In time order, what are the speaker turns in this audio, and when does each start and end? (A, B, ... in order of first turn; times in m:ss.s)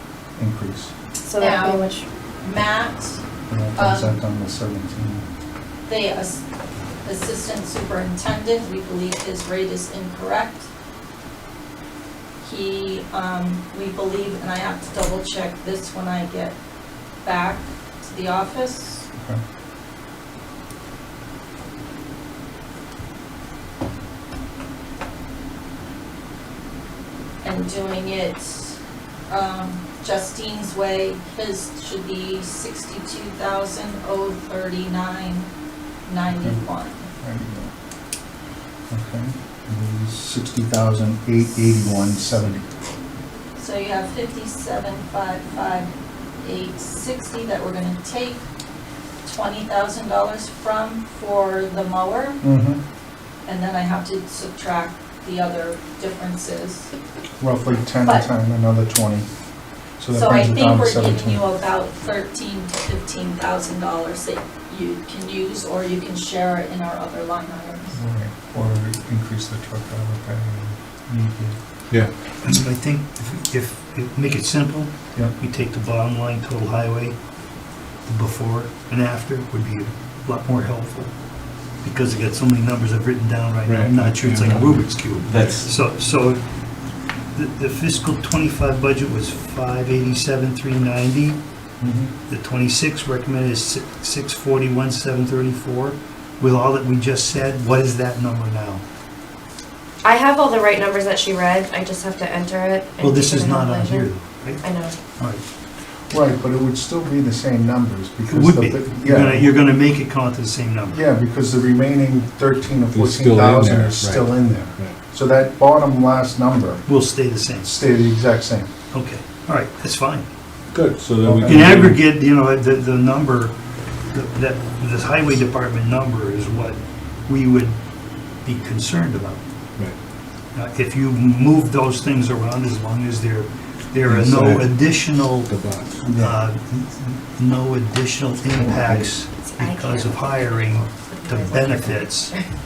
0:00.4-0:00.9 A
0:01.2-0:02.0 B
0:01.4-0:01.9 C
0:02.4-0:03.2 C
0:03.5-0:05.3 A
0:03.8-0:04.2 C
0:05.9-0:06.4 C
0:07.0-0:10.7 C
0:12.4-0:16.6 C
0:17.2-0:19.1 C
0:19.1-0:19.4 A
0:27.4-0:35.5 C
0:36.1-0:37.1 C
0:36.3-0:36.6 A
0:37.2-0:37.7 A
0:38.9-0:42.7 A
0:43.6-0:48.4 C
0:49.3-0:52.4 C
0:52.4-0:52.8 A
0:53.4-0:56.9 C
0:57.4-0:59.3 A
1:00.0-1:01.4 A
1:00.1-1:07.9 C
1:07.9-1:11.6 A
1:12.4-1:17.2 D
1:18.0-1:21.1 D
1:21.8-1:26.4 D
1:23.6-1:25.7 E
1:27.3-1:31.4 D
1:31.8-1:32.1 A
1:32.3-1:38.8 D
1:40.0-1:44.1 B
1:43.0-1:44.6 D
1:44.6-1:45.0 B
1:46.1-1:49.5 A
1:48.3-1:51.0 D
1:50.9-1:56.8 A
1:52.9-1:55.0 E
1:56.8-1:57.8 D
1:57.6-1:58.7 A
1:58.9-2:00.2 D
2:00.7-2:02.0 E
2:01.2-2:01.6 A
2:01.5-2:03.5 D
2:04.1-2:07.8 D
2:08.4-2:09.4 D
2:10.5-2:15.5 D
2:14.0-2:16.0 E
2:16.0-2:16.4 A
2:16.2-2:22.4 D
2:18.6-2:19.2 E
2:19.4-2:22.5 B